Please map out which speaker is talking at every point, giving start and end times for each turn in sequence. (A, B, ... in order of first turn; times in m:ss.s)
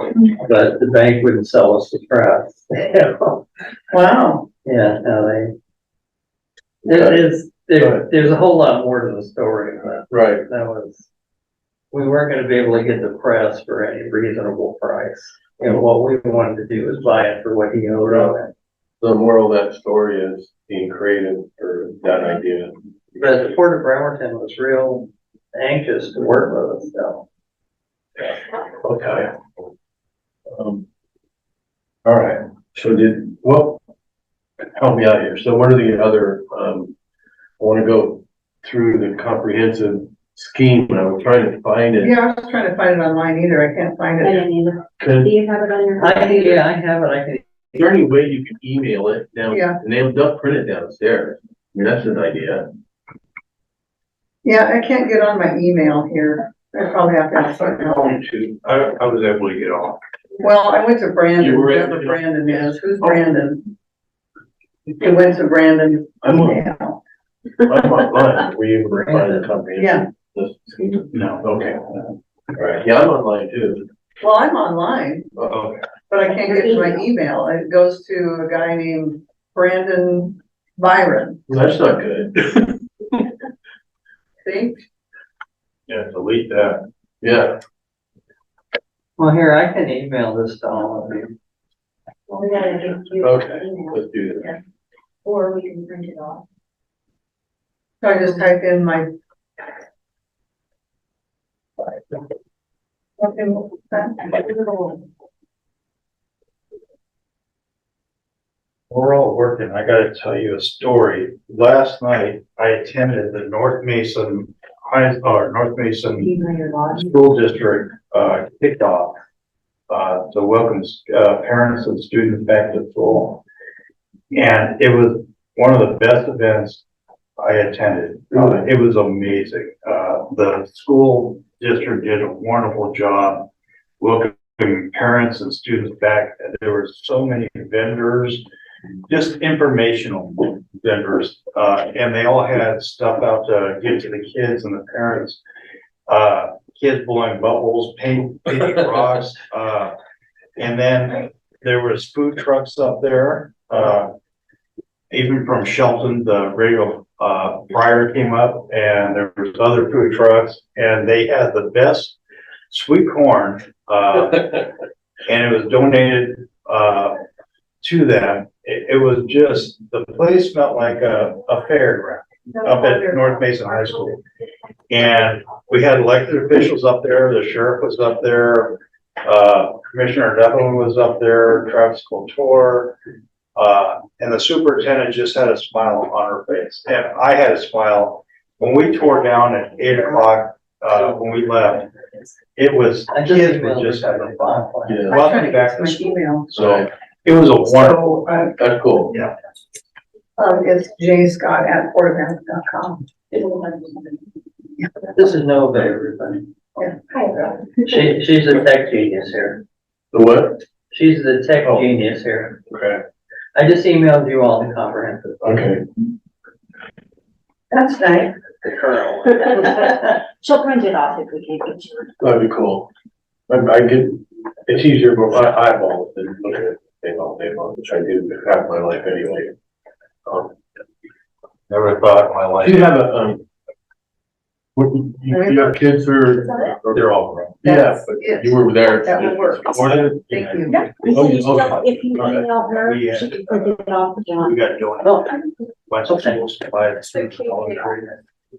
0:00.4-0:03.5 A
0:03.9-0:04.5 B
0:04.6-0:05.5 A
0:06.8-0:11.1 A
0:06.9-0:07.2 C
0:07.8-0:08.1 C
0:10.1-0:10.5 C
0:11.9-0:18.5 A
0:18.0-0:18.4 C
0:19.0-0:22.7 C
0:23.2-0:27.2 A
0:28.8-0:29.4 C
0:30.5-0:30.8 C
0:32.0-0:33.8 C
0:34.8-0:36.9 C
0:37.6-0:42.1 C
0:42.0-0:44.5 B
0:44.2-0:46.6 D
0:45.0-0:45.3 C
0:46.0-0:47.4 A
0:47.8-0:52.7 C
0:49.5-0:49.8 B
0:54.4-0:58.2 B
0:57.7-1:00.0 E
1:00.4-1:03.7 B
1:01.4-1:03.2 C
1:05.0-1:07.0 B
1:06.2-1:06.6 C
1:07.6-1:12.0 C
1:09.0-1:09.5 A
1:09.8-1:10.1 B
1:11.1-1:11.5 E
1:12.6-1:13.9 C
1:14.2-1:15.3 B
1:15.4-1:15.8 C
1:15.5-1:15.8 E
1:16.1-1:21.4 B
1:16.5-1:17.0 D
1:21.5-1:22.7 C
1:24.4-1:24.8 B
1:25.9-1:26.8 E
1:27.2-1:27.6 C
1:29.2-1:31.4 A
1:32.3-1:34.0 D
1:33.2-1:34.6 C
1:35.3-1:36.4 D
1:38.0-1:39.1 B
1:41.8-1:42.2 B
1:43.2-1:45.0 B
1:48.9-1:56.4 E
1:56.3-1:57.0 D
1:56.9-1:59.2 E
1:59.9-2:03.4 E
2:04.3-2:06.8 E
2:07.4-2:13.5 E
2:08.3-2:08.7 C
2:14.0-2:18.4 E
2:19.1-2:25.4 E
2:26.1-2:30.0 E
2:30.6-2:34.2 E
2:35.1-2:42.2 E
2:42.7-2:44.7 E
2:45.3-2:47.2 E
2:47.8-2:54.2 E
2:52.6-2:53.0 B
2:54.9-3:03.0 E
3:03.6-3:11.9 E
3:12.6-3:18.0 E
3:13.1-3:15.2 A
3:14.9-3:15.2 C
3:15.1-3:16.5 B
3:16.5-3:16.9 C
3:17.7-3:18.6 B
3:18.6-3:19.2 C
3:20.4-3:24.1 B
3:25.1-3:26.5 A
3:26.8-3:27.2 B
3:27.8-3:29.6 A
3:30.1-3:30.6 C
3:30.9-3:32.6 A
3:32.7-3:33.0 C
3:33.6-3:35.5 A
3:35.4-3:35.8 C
3:37.7-3:38.3 B
3:38.6-3:39.6 A
3:39.5-3:42.1 D
3:42.2-3:42.9 C
3:43.5-3:49.6 C
3:50.3-3:50.5 C
3:51.7-3:53.0 E
3:52.6-3:53.4 C
3:54.8-4:02.5 C
3:55.3-3:55.8 B
3:56.9-3:57.6 E
3:57.6-4:00.9 B
4:00.7-4:04.5 D
4:02.7-4:03.8 E
4:04.4-4:08.2 E
4:05.0-4:05.4 A
4:06.1-4:06.4 A
4:07.2-4:07.8 D